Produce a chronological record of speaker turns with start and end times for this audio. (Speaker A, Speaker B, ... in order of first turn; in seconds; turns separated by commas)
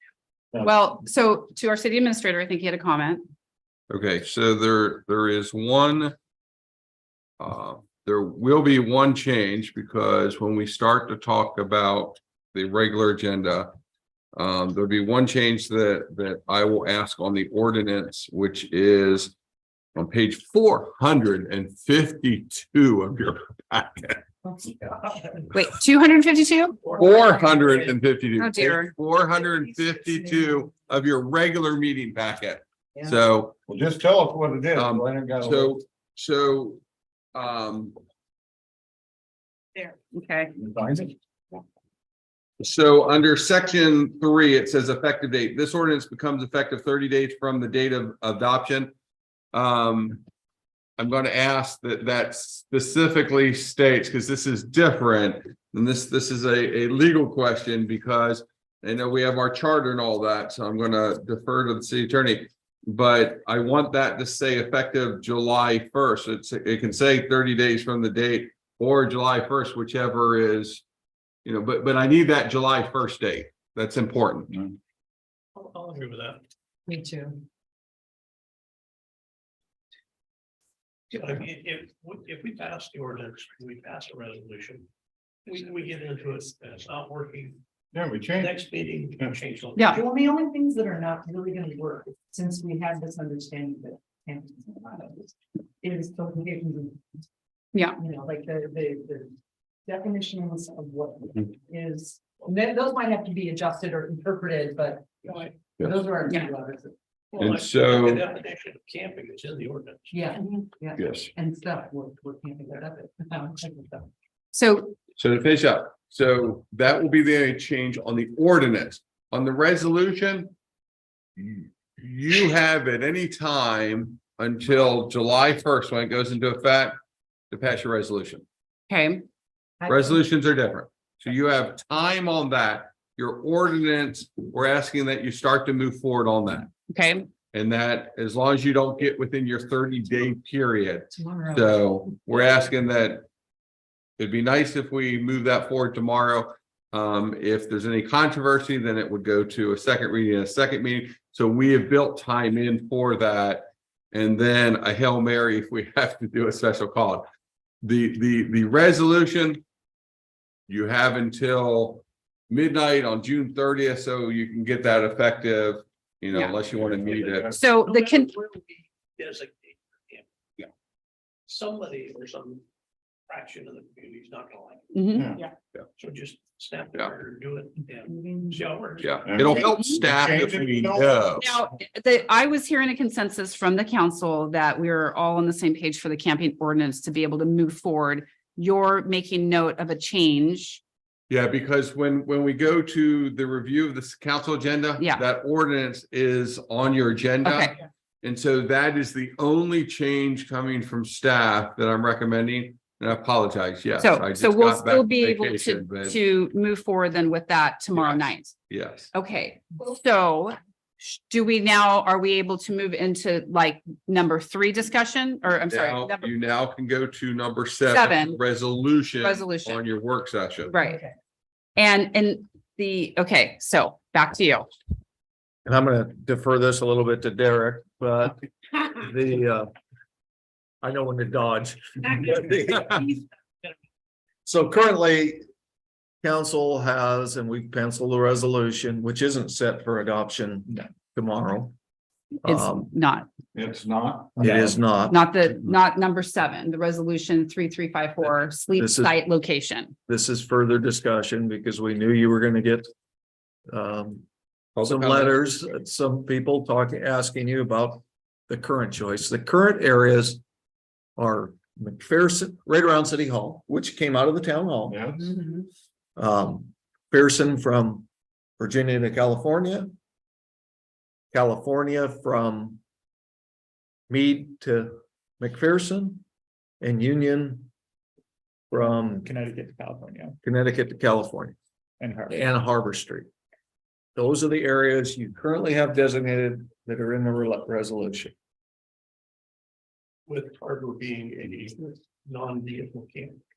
Speaker A: 0.6-3.3, Speaker B: 3.9-6.1, Speaker B: 7.4-13.7, Speaker B: 14.3-19.3, Speaker B: 19.9-24.2, Speaker C: 24.4-25.5, Speaker A: 25.5-26.9, Speaker D: 26.9-27.3, Speaker B: 26.9-33.5, Speaker A: 28.4-28.9, Speaker E: 33.7-35.8, Speaker B: 34.7-36.8, Speaker B: 37.3-37.9, Speaker A: 40.1-40.5, Speaker E: 40.5-41.1, Speaker B: 42.6-48.9, Speaker B: 49.5-50.2, Speaker B: 51.0-70.8, Speaker B: 71.4-74.5, Speaker D: 75.5-76.4, Speaker C: 76.9-77.4, Speaker D: 81.1-84.8, Speaker D: 85.5-87.6, Speaker E: 87.9-88.5, Speaker D: 88.4-90.0, Speaker C: 89.9-97.0, Speaker A: 97.7-98.0, Speaker C: 98.0-99.3, Speaker C: 99.8-106.9, Speaker D: 105.2-105.5, Speaker A: 106.2-106.5, Speaker D: 107.3-110.2, Speaker B: 107.4-108.2, Speaker C: 110.1-114.1, Speaker B: 111.0-111.3, Speaker A: 114.5-115.0, Speaker B: 115.2-120.5, Speaker B: 121.4-127.0, Speaker B: 127.5-128.4, Speaker A: 128.9-129.2, Speaker C: 129.8-130.1, Speaker B: 129.9-136.7, Speaker A: 136.9-137.3, Speaker B: 137.5-143.2, Speaker C: 141.1-141.8, Speaker B: 144.2-157.2, Speaker B: 157.8-159.6, Speaker B: 160.7-167.6, Speaker A: 166.3-166.6, Speaker E: 166.7-167.5, Speaker A: 167.5-168.3, Speaker D: 167.8-170.2, Speaker D: 171.5-172.6, Speaker D: 173.3-175.4, Speaker A: 174.9-175.3, Speaker E: 175.1-175.4, Speaker D: 176.0-179.3, Speaker C: 178.1-178.6, Speaker B: 179.0-181.6, Speaker E: 179.2-181.2, Speaker A: 181.4-190.8, Speaker B: 191.3-206.2, Speaker A: 197.4-197.7, Speaker A: 204.0-208.6, Speaker B: 207.9-209.1, Speaker A: 209.1-216.3, Speaker B: 215.7-220.7, Speaker A: 217.9-218.4, Speaker A: 219.2-219.8, Speaker A: 220.6-221.0, Speaker C: 220.8-221.1, Speaker A: 221.8-224.7, Speaker F: 225.7-228.4, Speaker F: 228.9-229.7, Speaker F: 230.8-233.1, Speaker F: 234.4-235.4, Speaker F: 236.2-241.7, Speaker F: 242.4-242.9, Speaker A: 242.4-243.3, Speaker E: 243.5-244.6, Speaker F: 244.4-245.2, Speaker B: 244.4-244.7, Speaker A: 245.0-249.9, Speaker F: 248.8-249.1, Speaker F: 250.1-252.9, Speaker F: 253.7-254.2, Speaker B: 254.8-255.3, Speaker F: 254.8-260.4, Speaker F: 261.2-265.0, Speaker E: 264.9-265.3, Speaker F: 266.2-268.1, Speaker F: 268.6-269.9, Speaker F: 271.3-272.8, Speaker F: 274.1-276.2, Speaker F: 276.8-277.7, Speaker F: 278.7-279.3, Speaker G: 278.9-280.4, Speaker F: 280.4-281.6, Speaker G: 282.0-282.5, Speaker F: 282.3-283.3, Speaker F: 284.1-288.3, Speaker D: 290.3-293.4